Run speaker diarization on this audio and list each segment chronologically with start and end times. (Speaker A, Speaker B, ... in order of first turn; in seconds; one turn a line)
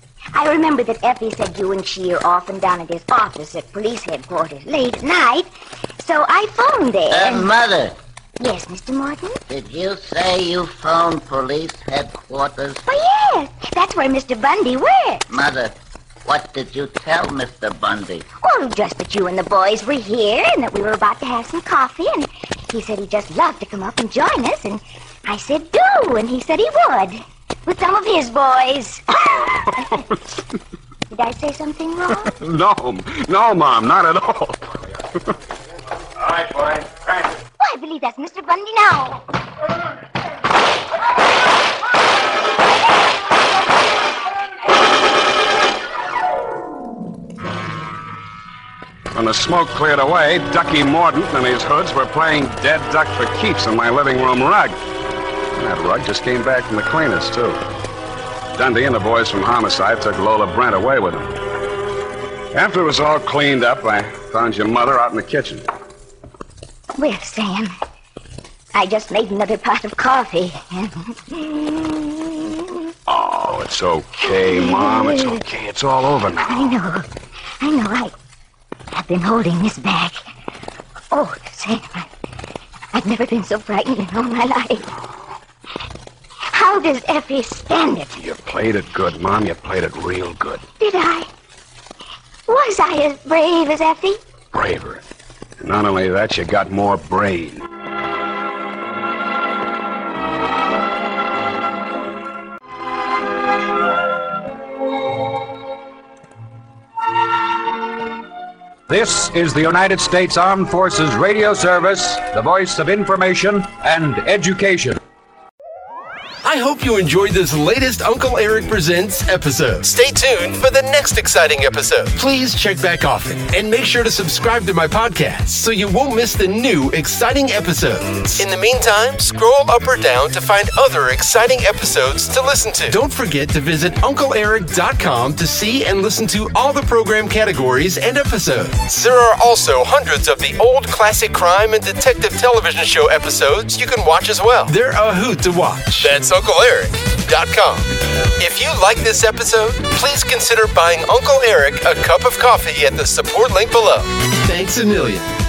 Speaker A: 0.3-7.5
Speaker B: 7.1-8.0
Speaker A: 8.4-9.4
Speaker B: 9.5-12.8
Speaker A: 12.9-15.2
Speaker B: 15.3-18.3
Speaker A: 18.4-30.0
Speaker A: 31.1-32.3
Speaker C: 32.3-34.7
Speaker A: 37.6-39.3
Speaker C: 49.1-54.8
Speaker C: 55.5-57.6
Speaker C: 58.6-61.4
Speaker C: 62.5-65.7
Speaker A: 67.0-67.7
Speaker A: 68.7-72.9
Speaker C: 73.1-76.8
Speaker A: 74.2-75.4
Speaker A: 76.5-77.1
Speaker A: 77.6-78.1
Speaker A: 78.9-80.2
Speaker A: 81.1-82.1
Speaker A: 82.9-84.9
Speaker A: 86.5-88.2
Speaker C: 88.2-90.7
Speaker A: 90.8-91.3
Speaker A: 92.5-94.2
Speaker C: 94.5-95.0
Speaker C: 95.6-97.7
Speaker D: 108.9-115.0
Speaker E: 116.4-155.3